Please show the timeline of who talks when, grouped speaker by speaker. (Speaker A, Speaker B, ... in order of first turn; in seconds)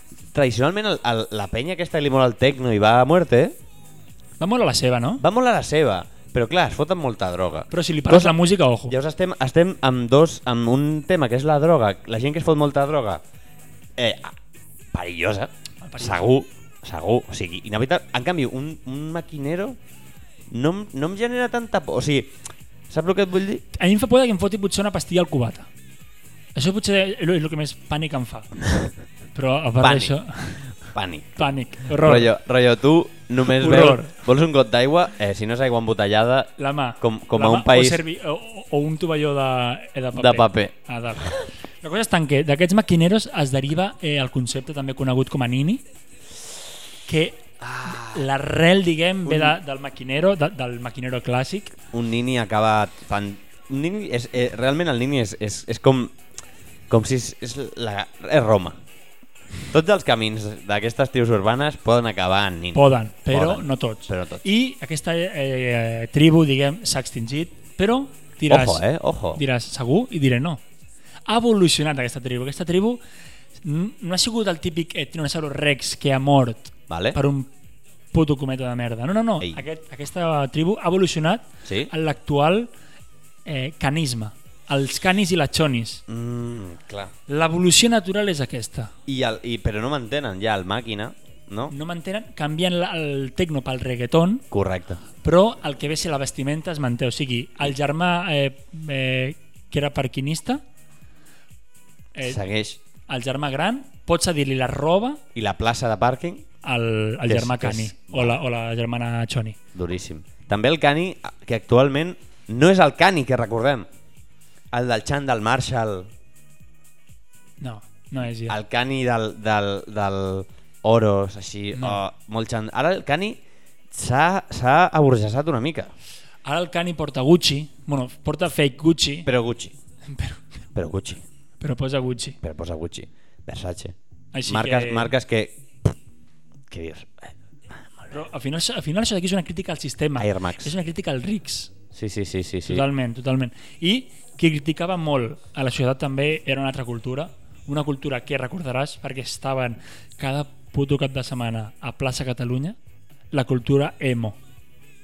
Speaker A: 0.3-3.6, 5.2-8.4, 8.9-13.2, 14.0-14.4, 14.9-19.8, 20.5-22.4, 22.9-23.6, 29.8-30.2, 30.8-38.0, 40.1-40.7, 47.6-48.2, 49.3-49.6, 51.9-56.2, 56.9-58.8, 59.7-64.5, 68.5-69.4, 76.9-77.2, 81.7-81.9, 86.1-87.1, 89.1-91.7, 94.5-95.0, 102.2-102.8, 105.3-106.5, 107.3-108.4, 109.7-113.9, 114.7-116.1, 118.5-123.4, 123.9-125.9, 129.3-129.8, 130.7-131.2, 132.4-133.9, 134.5-136.0, 136.7-138.1, 140.2-140.7, 141.9-142.9
Speaker B: 4.4-5.2, 7.7-9.0, 15.8-16.3, 23.7-25.7, 26.6-28.6, 29.4-30.7, 31.4-32.3, 33.5-34.1, 36.6-45.8, 47.1-51.8, 62.7-70.6, 71.3-73.0, 73.6-77.5, 78.1-82.7, 83.5-86.0, 87.3-88.9, 91.7-94.5, 95.2-100.6, 102.2-102.4, 103.1-105.2, 106.6-109.6, 117.6-118.6, 121.8-122.0, 126.5-129.3, 130.1-130.4, 131.6-132.4, 134.3-135.1, 138.1-141.7, 142.7-152.8, 153.3-154.4